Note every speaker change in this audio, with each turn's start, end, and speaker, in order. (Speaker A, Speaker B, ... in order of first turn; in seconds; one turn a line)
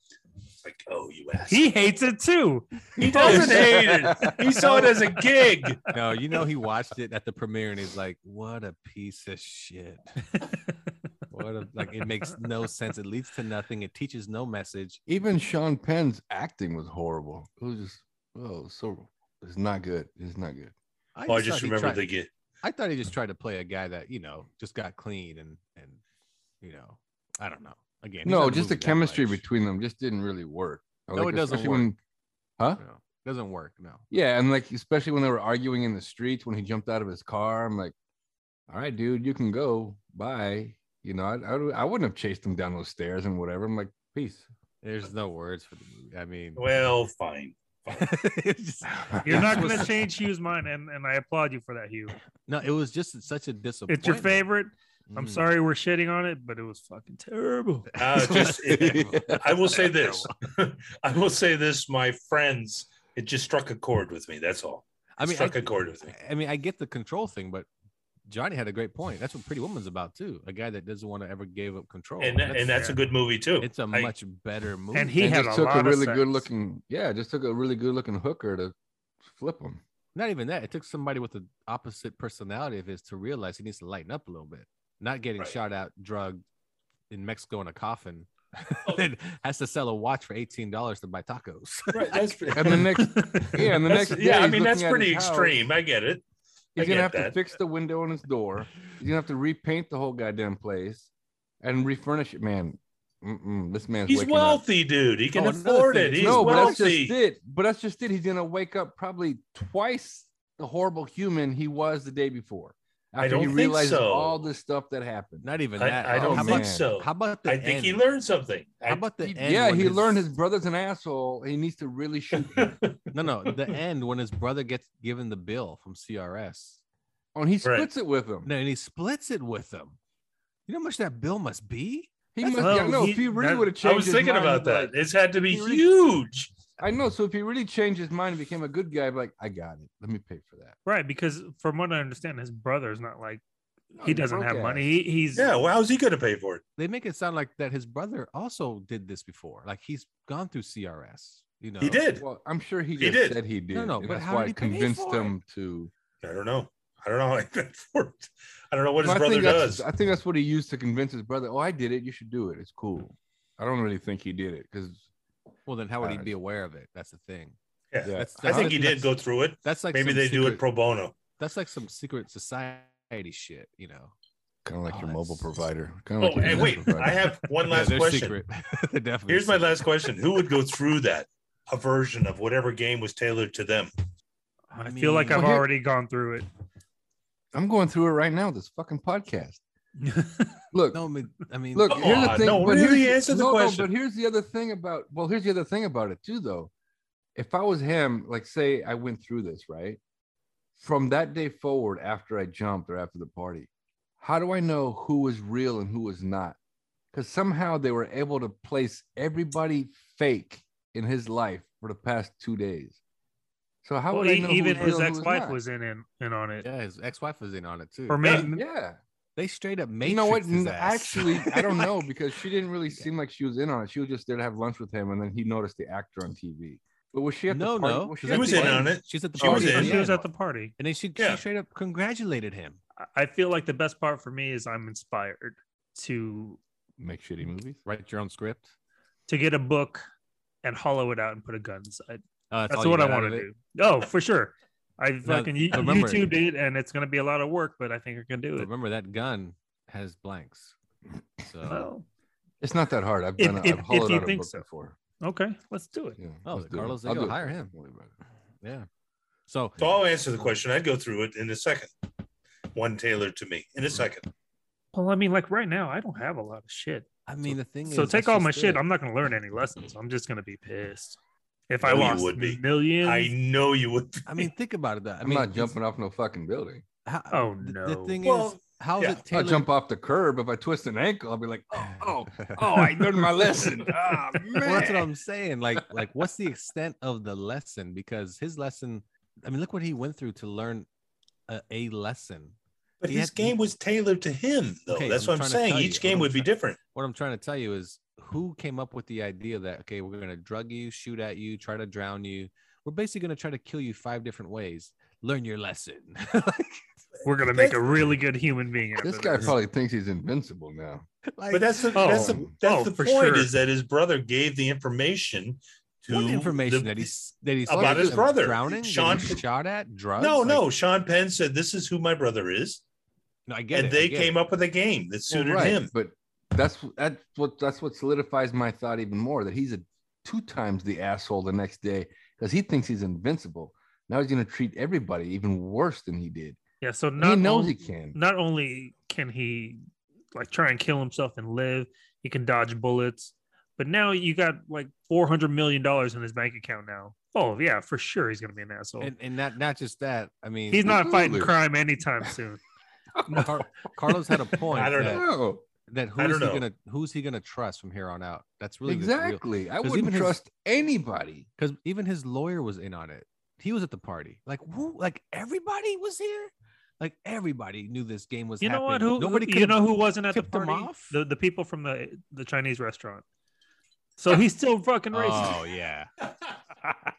Speaker A: 0.6-1.6
Speaker B: 1.5-3.9
Speaker A: 3.0-5.8
Speaker C: 3.0-4.8
Speaker B: 4.5-5.0
Speaker D: 5.9-10.2
Speaker D: 11.3-15.0
Speaker C: 15.1-20.7
Speaker D: 21.1-22.1
Speaker A: 21.3-22.3
Speaker D: 22.6-26.0
Speaker D: 26.6-29.4
Speaker C: 28.2-32.0
Speaker D: 31.1-31.9
Speaker D: 32.8-34.0
Speaker C: 34.1-37.9
Speaker C: 38.7-44.5
Speaker D: 44.8-46.6
Speaker A: 46.6-48.1
Speaker D: 47.9-49.9
Speaker C: 49.1-49.8
Speaker B: 49.2-52.1
Speaker D: 52.5-54.4
Speaker B: 53.9-57.9
Speaker D: 55.1-55.5
Speaker A: 58.0-66.1
Speaker D: 58.1-60.2
Speaker C: 58.2-59.6
Speaker D: 65.2-67.7
Speaker D: 68.3-72.9
Speaker A: 72.2-74.1
Speaker D: 73.6-75.3
Speaker B: 74.9-76.5
Speaker C: 75.2-79.8
Speaker D: 80.1-86.4
Speaker D: 87.1-92.8
Speaker A: 91.9-92.9
Speaker C: 92.5-95.6
Speaker B: 93.0-93.6
Speaker A: 93.8-96.2
Speaker C: 96.8-101.1
Speaker A: 96.8-97.3
Speaker C: 101.6-104.6
Speaker A: 104.1-107.1
Speaker D: 105.3-106.9
Speaker C: 106.2-115.5
Speaker A: 113.2-114.4
Speaker D: 115.4-118.0
Speaker A: 115.8-119.0
Speaker C: 116.1-116.9
Speaker D: 118.9-120.3
Speaker C: 119.2-122.8
Speaker A: 122.3-123.0
Speaker D: 123.1-126.8
Speaker C: 127.3-128.5
Speaker D: 128.4-130.0
Speaker D: 130.7-132.9
Speaker C: 132.3-135.9
Speaker B: 132.5-133.8
Speaker A: 133.8-136.5
Speaker C: 136.8-140.8
Speaker B: 140.9-143.4
Speaker C: 143.9-144.9
Speaker B: 144.0-145.5
Speaker A: 145.3-146.6
Speaker D: 146.8-152.0
Speaker A: 151.8-152.2
Speaker C: 152.2-155.9
Speaker A: 153.0-153.4
Speaker D: 153.7-155.4
Speaker A: 156.2-159.8
Speaker C: 159.0-165.1
Speaker D: 165.7-167.6
Speaker C: 166.0-166.3
Speaker A: 167.9-171.1
Speaker C: 168.0-168.7
Speaker D: 168.1-170.6
Speaker D: 171.4-174.1
Speaker C: 174.6-177.3
Speaker D: 174.9-175.5
Speaker A: 176.2-178.4
Speaker D: 177.7-179.9
Speaker A: 179.3-183.9
Speaker B: 184.7-186.5
Speaker D: 184.7-185.6
Speaker C: 185.3-185.7
Speaker C: 187.5-189.6
Speaker B: 190.0-190.5
Speaker C: 190.7-191.0
Speaker D: 190.9-192.6
Speaker C: 191.7-196.7
Speaker A: 191.9-193.9
Speaker C: 197.4-200.0
Speaker C: 200.8-203.7
Speaker C: 204.2-206.6
Speaker C: 207.1-213.0
Speaker C: 213.8-215.6
Speaker B: 214.1-216.7
Speaker D: 216.6-218.4
Speaker B: 218.1-218.6
Speaker C: 218.5-219.0
Speaker D: 219.4-222.1
Speaker C: 220.0-230.0
Speaker D: 227.5-230.3
Speaker A: 228.3-230.1
Speaker B: 229.4-230.7
Speaker D: 230.8-232.8
Speaker A: 231.2-231.4
Speaker B: 233.1-236.6
Speaker C: 237.0-237.8
Speaker D: 237.8-238.7
Speaker B: 239.3-240.0
Speaker B: 240.6-248.7
Speaker D: 242.5-243.5
Speaker D: 245.2-246.3
Speaker D: 248.6-250.7
Speaker D: 251.4-251.9
Speaker B: 251.7-252.1
Speaker C: 252.6-254.9
Speaker B: 253.4-254.6
Speaker B: 255.2-256.2
Speaker C: 256.1-258.1
Speaker D: 256.4-257.7
Speaker D: 258.6-258.9
Speaker D: 259.5-259.8
Speaker A: 259.8-261.9
Speaker A: 262.7-264.3
Speaker B: 264.9-271.2
Speaker D: 267.3-268.8
Speaker B: 271.7-273.3
Speaker A: 271.8-274.4
Speaker D: 274.3-275.8
Speaker C: 275.2-276.8
Speaker D: 277.1-279.7
Speaker B: 277.3-278.2
Speaker A: 278.2-279.2
Speaker C: 279.3-285.1
Speaker D: 281.8-283.6
Speaker D: 284.6-290.9
Speaker D: 291.5-292.6
Speaker A: 293.0-296.8
Speaker D: 293.1-293.6
Speaker D: 294.9-306.9
Speaker B: 307.2-309.6
Speaker A: 307.4-308.0
Speaker C: 309.0-311.0
Speaker D: 311.3-312.0
Speaker A: 311.5-317.1
Speaker B: 311.9-313.5
Speaker C: 312.2-312.5
Speaker D: 316.1-320.7
Speaker A: 317.7-319.4
Speaker C: 317.8-318.1
Speaker A: 320.2-322.8
Speaker D: 323.5-324.4
Speaker A: 323.7-325.9
Speaker C: 325.3-336.6
Speaker D: 325.5-325.8
Speaker B: 336.8-339.8
Speaker C: 337.2-338.2
Speaker B: 340.3-349.1
Speaker D: 349.0-351.0
Speaker B: 350.7-352.6
Speaker C: 350.8-351.5
Speaker C: 353.1-353.6
Speaker D: 353.3-355.3
Speaker A: 354.7-355.3
Speaker C: 355.0-355.6
Speaker D: 355.9-360.4
Speaker A: 356.2-356.6
Speaker C: 358.9-361.5
Speaker D: 361.6-371.1
Speaker B: 368.6-373.2
Speaker B: 374.2-375.6
Speaker D: 375.1-376.1